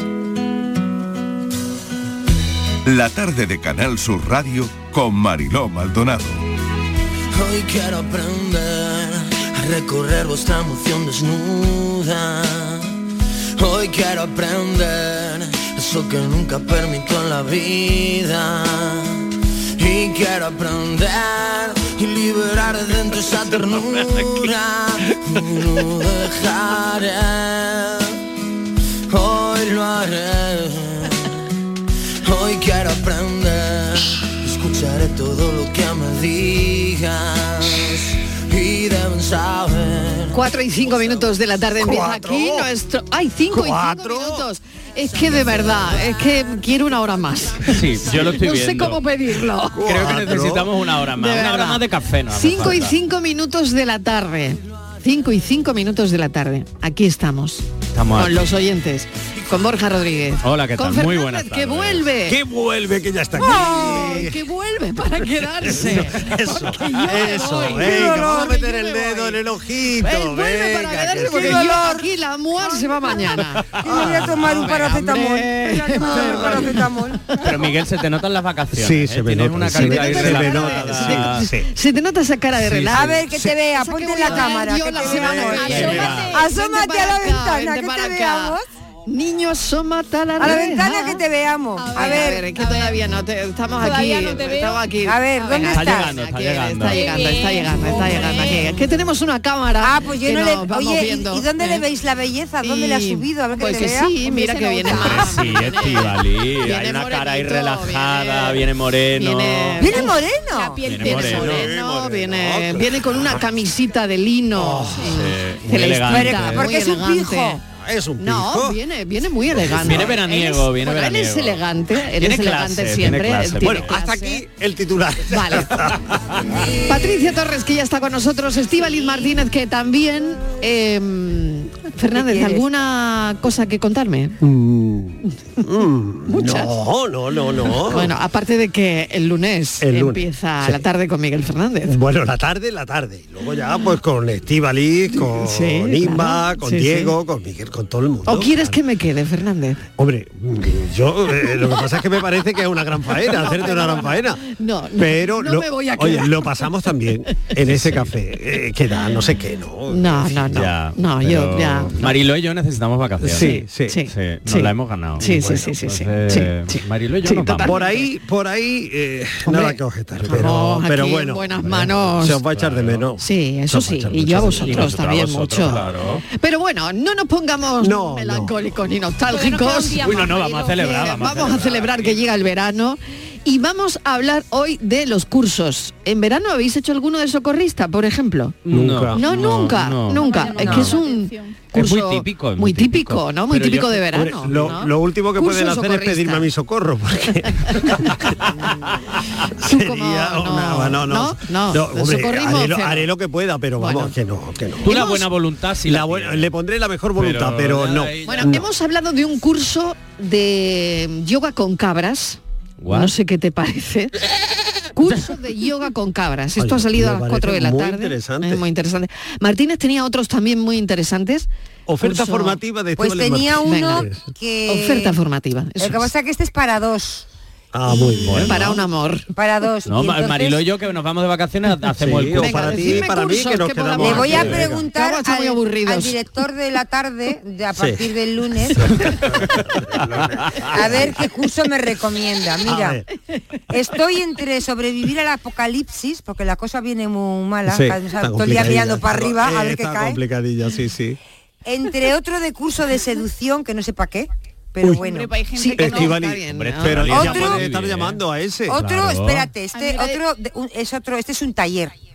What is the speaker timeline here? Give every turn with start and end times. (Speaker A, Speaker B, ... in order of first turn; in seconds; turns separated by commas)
Speaker A: 2.9-6.4, Speaker B: 7.4-8.4, Speaker B: 10.2-11.0, Speaker B: 19.8-20.1, Speaker B: 20.7-21.0, Speaker B: 21.8-22.6, Speaker B: 26.4-26.9, Speaker B: 29.1-30.3, Speaker B: 32.3-33.3, Speaker B: 34.5-35.2, Speaker B: 38.5-40.0, Speaker C: 40.3-49.9, Speaker D: 41.8-42.7, Speaker D: 43.5-44.5, Speaker D: 45.4-45.7, Speaker E: 47.6-49.0, Speaker D: 49.7-50.7, Speaker E: 49.8-52.9, Speaker C: 51.2-62.4, Speaker E: 57.9-58.5, Speaker E: 60.4-62.1, Speaker D: 62.3-64.4, Speaker C: 63.4-69.2, Speaker D: 65.6-71.8, Speaker F: 67.7-69.3, Speaker C: 70.0-77.4, Speaker F: 71.1-77.2, Speaker D: 73.7-74.4, Speaker D: 76.0-76.7, Speaker E: 77.4-81.5, Speaker D: 78.7-81.7, Speaker C: 79.7-91.2, Speaker E: 82.8-83.2, Speaker F: 82.8-88.6, Speaker D: 85.0-86.2, Speaker G: 85.4-86.5, Speaker E: 85.7-86.3, Speaker F: 90.4-92.4, Speaker G: 91.8-93.0, Speaker C: 91.9-101.8, Speaker G: 93.8-95.8, Speaker F: 95.0-96.1, Speaker E: 95.7-97.3, Speaker G: 96.8-98.8, Speaker F: 99.8-104.2, Speaker C: 102.6-108.6, Speaker G: 103.8-106.0, Speaker E: 104.9-110.1, Speaker C: 109.2-110.2, Speaker F: 109.8-111.1, Speaker G: 110.0-111.7, Speaker E: 110.8-111.7, Speaker C: 111.0-117.6, Speaker D: 111.4-113.4, Speaker D: 114.5-115.2, Speaker E: 115.0-116.7, Speaker F: 116.0-117.6, Speaker D: 117.8-118.8, Speaker C: 118.2-124.4, Speaker D: 119.5-120.1, Speaker E: 119.7-124.0, Speaker D: 123.6-126.2, Speaker C: 125.3-125.7, Speaker C: 126.8-134.4, Speaker F: 132.1-132.6, Speaker D: 134.4-138.1, Speaker C: 136.3-136.7, Speaker C: 137.9-142.0, Speaker D: 139.8-140.8, Speaker D: 141.9-148.8, Speaker C: 145.4-147.1, Speaker C: 148.3-149.8, Speaker D: 150.0-154.4, Speaker C: 153.4-156.7, Speaker D: 155.0-160.7, Speaker E: 157.6-158.2, Speaker C: 159.9-162.2, Speaker E: 160.5-167.8, Speaker D: 163.2-164.0, Speaker C: 163.3-168.0, Speaker D: 165.2-165.8, Speaker D: 167.6-174.9, Speaker C: 169.5-169.8, Speaker E: 170.2-170.5, Speaker C: 170.3-172.4, Speaker E: 171.7-173.1, Speaker C: 173.2-188.6, Speaker E: 174.4-176.2, Speaker D: 177.8-178.6, Speaker G: 179.3-181.7, Speaker E: 180.0-181.9, Speaker E: 188.7-190.9, Speaker D: 188.7-189.2, Speaker C: 189.2-196.5, Speaker G: 190.1-191.6, Speaker E: 191.8-194.7, Speaker D: 194.1-198.4, Speaker D: 199.6-205.2, Speaker C: 199.6-203.1, Speaker C: 203.8-204.1, Speaker E: 204.8-206.5, Speaker C: 204.9-205.2, Speaker D: 205.9-208.7, Speaker E: 207.2-208.6, Speaker C: 208.3-214.2, Speaker E: 212.8-213.1, Speaker C: 214.9-221.5, Speaker D: 216.6-218.6, Speaker D: 221.9-224.2, Speaker C: 222.0-222.6, Speaker F: 223.0-225.2, Speaker C: 223.6-224.0, Speaker C: 224.7-226.1, Speaker F: 225.8-227.3, Speaker D: 227.7-228.8, Speaker E: 228.3-228.8, Speaker C: 228.4-229.3, Speaker F: 229.3-230.6, Speaker E: 229.9-233.0, Speaker D: 232.0-234.9, Speaker C: 232.4-236.2, Speaker F: 234.0-238.9, Speaker D: 237.8-238.1, Speaker D: 238.8-241.2, Speaker F: 240.7-243.0, Speaker D: 242.6-243.1, Speaker F: 243.7-250.2, Speaker D: 247.7-251.2, Speaker F: 251.7-255.3, Speaker G: 255.0-256.2, Speaker C: 255.6-257.2, Speaker D: 255.8-258.8, Speaker E: 256.5-258.2, Speaker F: 257.1-257.6, Speaker F: 258.7-261.9, Speaker E: 258.8-259.5, Speaker G: 259.7-260.2